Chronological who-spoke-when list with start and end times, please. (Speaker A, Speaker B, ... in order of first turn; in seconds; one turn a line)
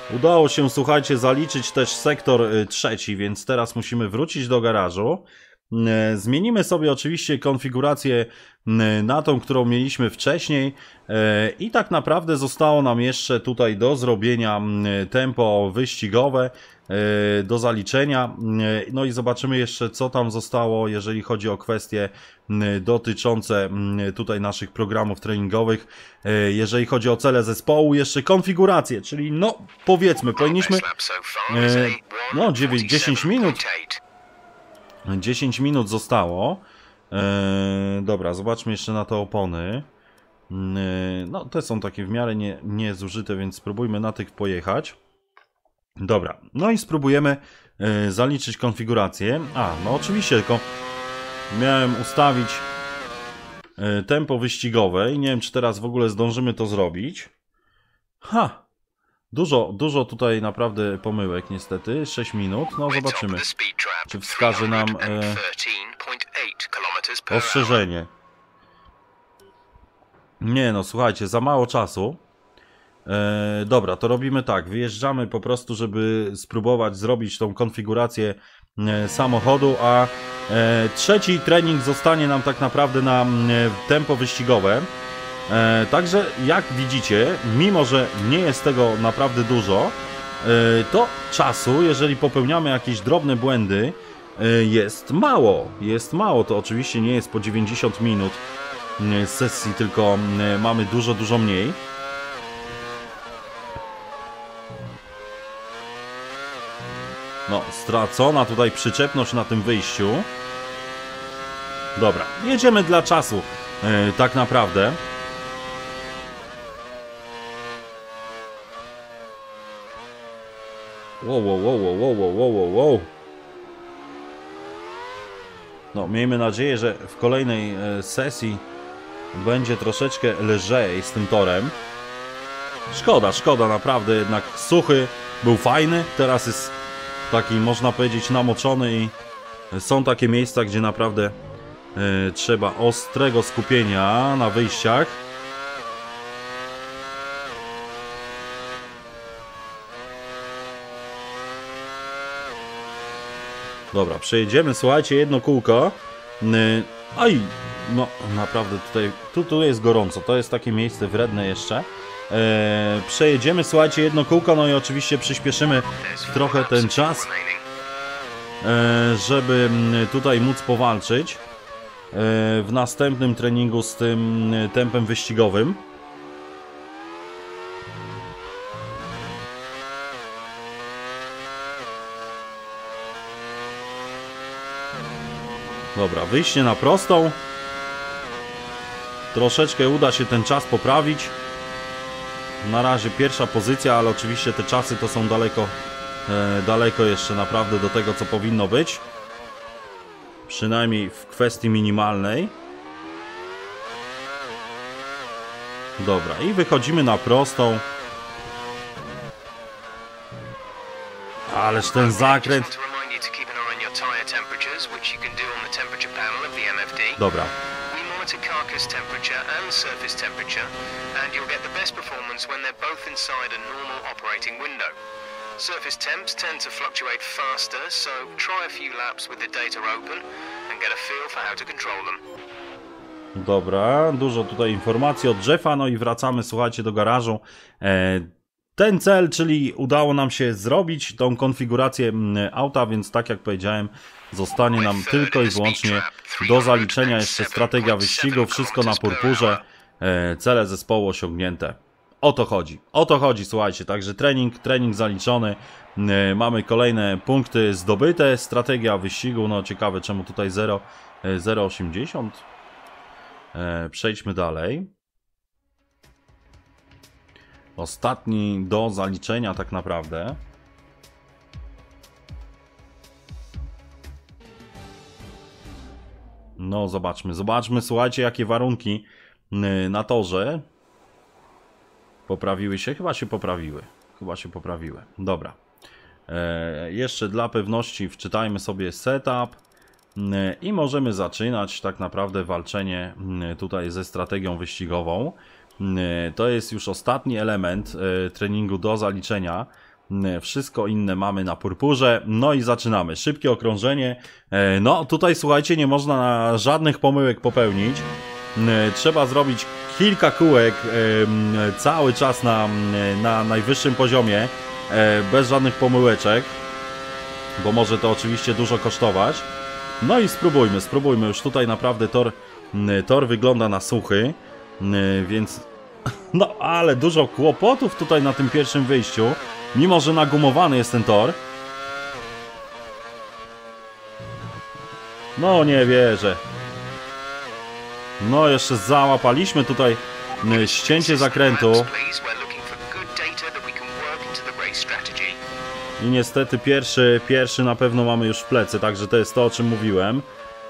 Speaker A: 0.1-30.9
Speaker B: 30.4-34.0
Speaker A: 31.5-33.6
Speaker A: 35.1-39.9
Speaker A: 40.5-45.0
Speaker A: 46.0-50.6
Speaker A: 51.5-52.6
Speaker A: 53.8-57.3
Speaker A: 58.2-58.6
Speaker A: 59.3-63.4
Speaker B: 62.9-67.8
Speaker A: 64.1-65.4
Speaker A: 67.3-68.1
Speaker A: 70.4-72.2
Speaker A: 73.0-84.9
Speaker A: 85.5-98.4
Speaker A: 99.0-101.8
Speaker A: 107.5-110.3
Speaker A: 112.0-115.0
Speaker A: 121.2-123.1
Speaker A: 125.9-128.6
Speaker A: 129.3-131.8
Speaker A: 132.9-136.7
Speaker A: 137.3-139.1
Speaker A: 139.7-141.3
Speaker A: 141.9-145.2
Speaker A: 153.9-167.3
Speaker B: 166.0-167.6
Speaker A: 168.6-171.4
Speaker A: 172.1-175.8
Speaker A: 185.9-187.4
Speaker A: 189.3-191.3
Speaker A: 192.6-195.7
Speaker A: 196.3-199.0
Speaker A: 200.5-202.5
Speaker A: 206.0-207.8
Speaker A: 211.5-212.7
Speaker B: 211.9-217.2
Speaker A: 217.2-217.5
Speaker B: 217.8-224.9
Speaker B: 225.6-232.2
Speaker A: 233.3-262.4
Speaker B: 244.7-249.6
Speaker A: 263.5-264.9
Speaker A: 267.8-270.4
Speaker A: 276.6-280.6
Speaker A: 282.3-285.6
Speaker A: 286.3-289.6
Speaker A: 290.1-316.6
Speaker A: 317.6-319.5
Speaker A: 320.0-325.7
Speaker A: 326.3-331.4
Speaker A: 335.4-336.4
Speaker A: 338.2-341.9
Speaker B: 340.4-345.4
Speaker A: 346.0-350.2